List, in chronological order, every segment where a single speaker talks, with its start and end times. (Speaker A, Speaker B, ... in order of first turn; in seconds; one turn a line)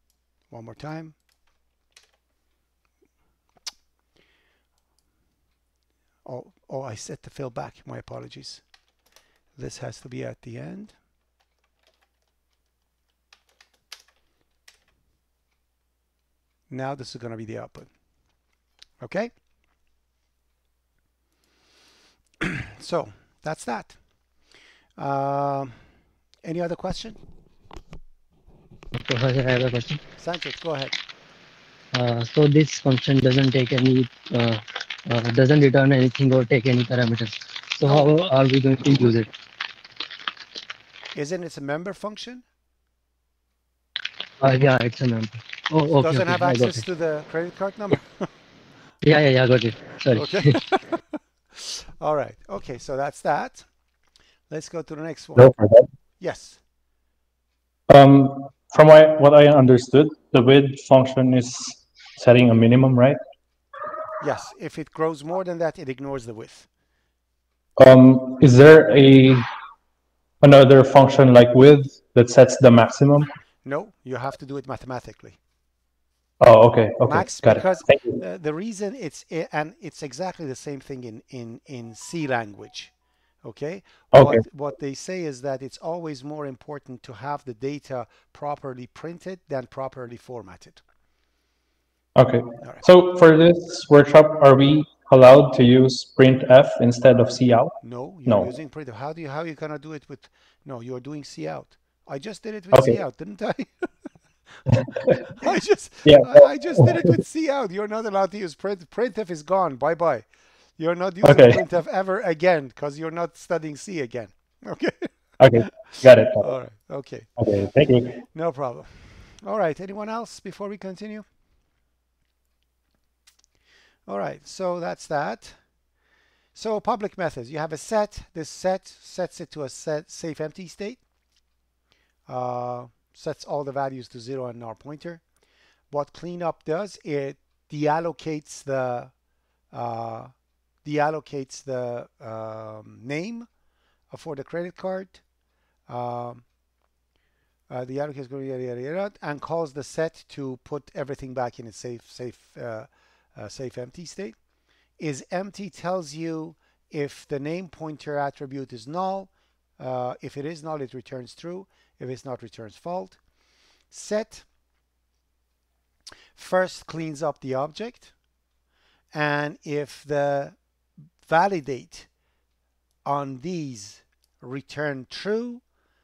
Speaker A: 0.5-1.1
Speaker A: 6.2-8.6
Speaker A: 9.6-10.9
Speaker A: 16.7-17.9
Speaker A: 19.0-19.3
Speaker A: 22.4-24.0
Speaker A: 25.0-25.8
Speaker A: 26.4-27.2
Speaker B: 28.9-30.0
Speaker A: 30.2-31.0
Speaker B: 31.9-39.3
Speaker A: 41.1-42.5
Speaker B: 44.4-46.8
Speaker A: 46.0-48.3
Speaker B: 49.0-50.6
Speaker A: 50.1-53.6
Speaker A: 54.5-55.5
Speaker C: 55.4-55.9
Speaker A: 56.2-56.6
Speaker C: 57.9-63.2
Speaker A: 64.2-66.7
Speaker C: 67.8-69.5
Speaker C: 70.4-73.3
Speaker A: 73.7-75.4
Speaker C: 76.4-78.2
Speaker A: 77.0-82.9
Speaker A: 83.4-90.8
Speaker C: 84.1-84.4
Speaker C: 92.2-98.5
Speaker A: 97.8-103.9
Speaker C: 102.7-103.0
Speaker A: 104.7-110.2
Speaker C: 104.7-105.3
Speaker C: 106.1-106.9
Speaker A: 110.8-117.4
Speaker C: 111.2-111.6
Speaker C: 115.4-116.5
Speaker C: 117.4-118.2
Speaker A: 118.2-121.2
Speaker A: 124.1-125.6
Speaker A: 126.5-131.0
Speaker A: 132.3-135.2
Speaker A: 135.9-139.1
Speaker A: 139.7-140.3
Speaker A: 140.8-143.5
Speaker A: 144.1-145.2
Speaker A: 145.9-146.4
Speaker A: 147.7-154.4
Speaker A: 155.0-163.2
Speaker A: 163.9-164.5
Speaker A: 166.3-168.1
Speaker A: 169.1-170.6
Speaker A: 171.2-172.1
Speaker A: 173.1-175.6